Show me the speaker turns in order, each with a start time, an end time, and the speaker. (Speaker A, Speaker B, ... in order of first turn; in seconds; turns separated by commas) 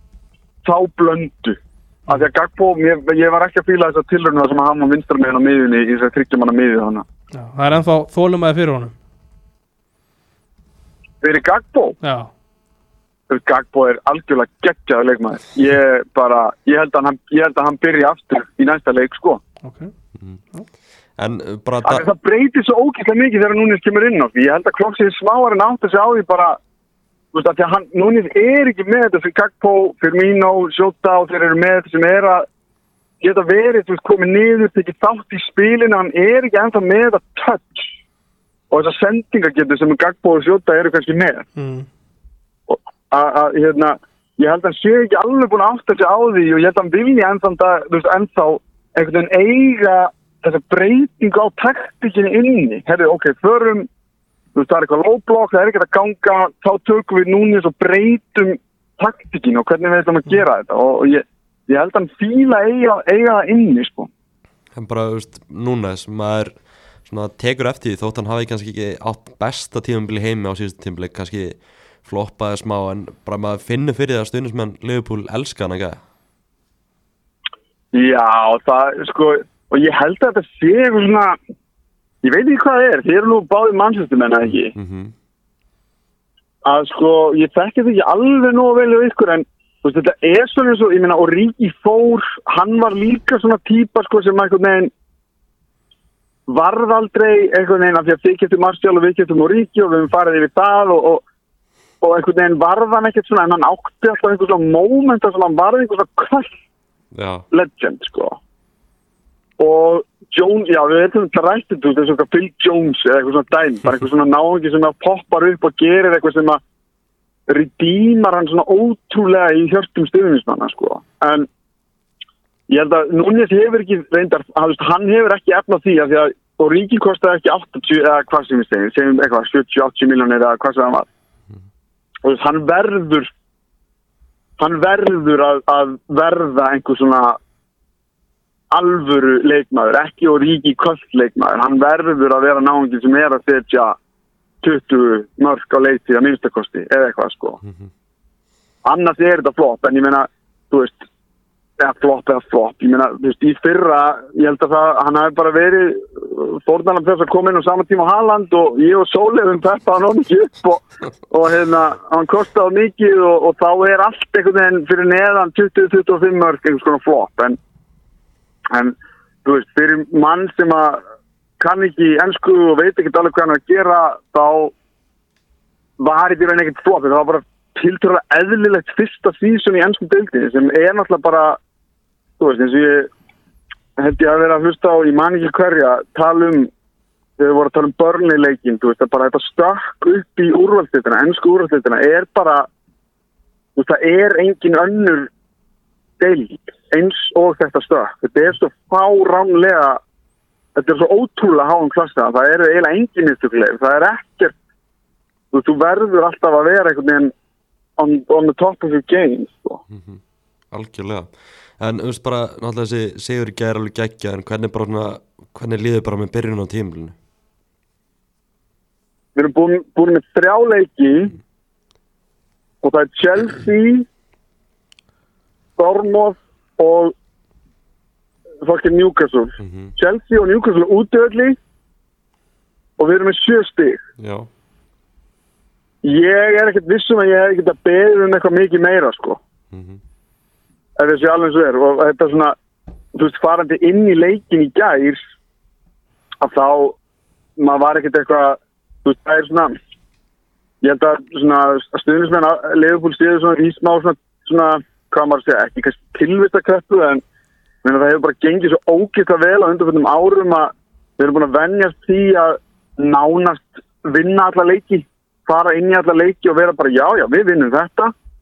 Speaker A: 0.6-7.0, Speaker B: 7.3-8.9, Speaker A: 11.2-12.0, Speaker B: 12.0-12.3, Speaker A: 13.3-19.4, Speaker B: 19.6-19.9, Speaker C: 21.2-22.1, Speaker A: 21.8-26.6, Speaker A: 27.3-32.5, Speaker A: 33.2-37.9, Speaker A: 38.7-41.5, Speaker B: 41.6-41.9, Speaker A: 42.7-53.9, Speaker A: 54.5-64.1, Speaker C: 64.8-66.5, Speaker C: 67.1-76.0, Speaker A: 77.9-81.4, Speaker A: 82.2-84.8, Speaker C: 84.5-85.1, Speaker A: 86.6-94.9, Speaker A: 96.5-101.2, Speaker A: 102.0-106.6, Speaker C: 107.1-107.5, Speaker A: 107.5-108.4, Speaker A: 109.6-116.6, Speaker A: 117.5-121.5, Speaker A: 122.7-131.1, Speaker A: 132.2-133.3, Speaker A: 134.6-137.4, Speaker A: 138.7-144.0, Speaker A: 144.6-147.6, Speaker A: 148.8-151.0, Speaker A: 151.8-167.6, Speaker A: 168.7-171.0, Speaker A: 171.6-174.7, Speaker A: 176.0-181.6, Speaker A: 182.4-183.1, Speaker A: 184.0-186.7, Speaker A: 187.4-192.7, Speaker A: 193.8-195.3, Speaker A: 196.2-200.0, Speaker A: 200.8-204.5, Speaker A: 205.5-207.3, Speaker A: 208.0-209.8, Speaker C: 209.9-210.2, Speaker C: 210.7-217.1, Speaker A: 219.3-221.3, Speaker A: 222.8-224.1, Speaker A: 225.8-227.1, Speaker A: 228.6-231.6, Speaker C: 229.6-229.9, Speaker A: 233.0-234.0, Speaker C: 234.2-234.5, Speaker A: 236.0-239.4, Speaker C: 239.7-240.0, Speaker A: 241.0-242.6, Speaker A: 243.1-245.2, Speaker A: 246.4-247.0, Speaker A: 247.6-249.8, Speaker A: 250.8-257.2, Speaker A: 257.8-268.1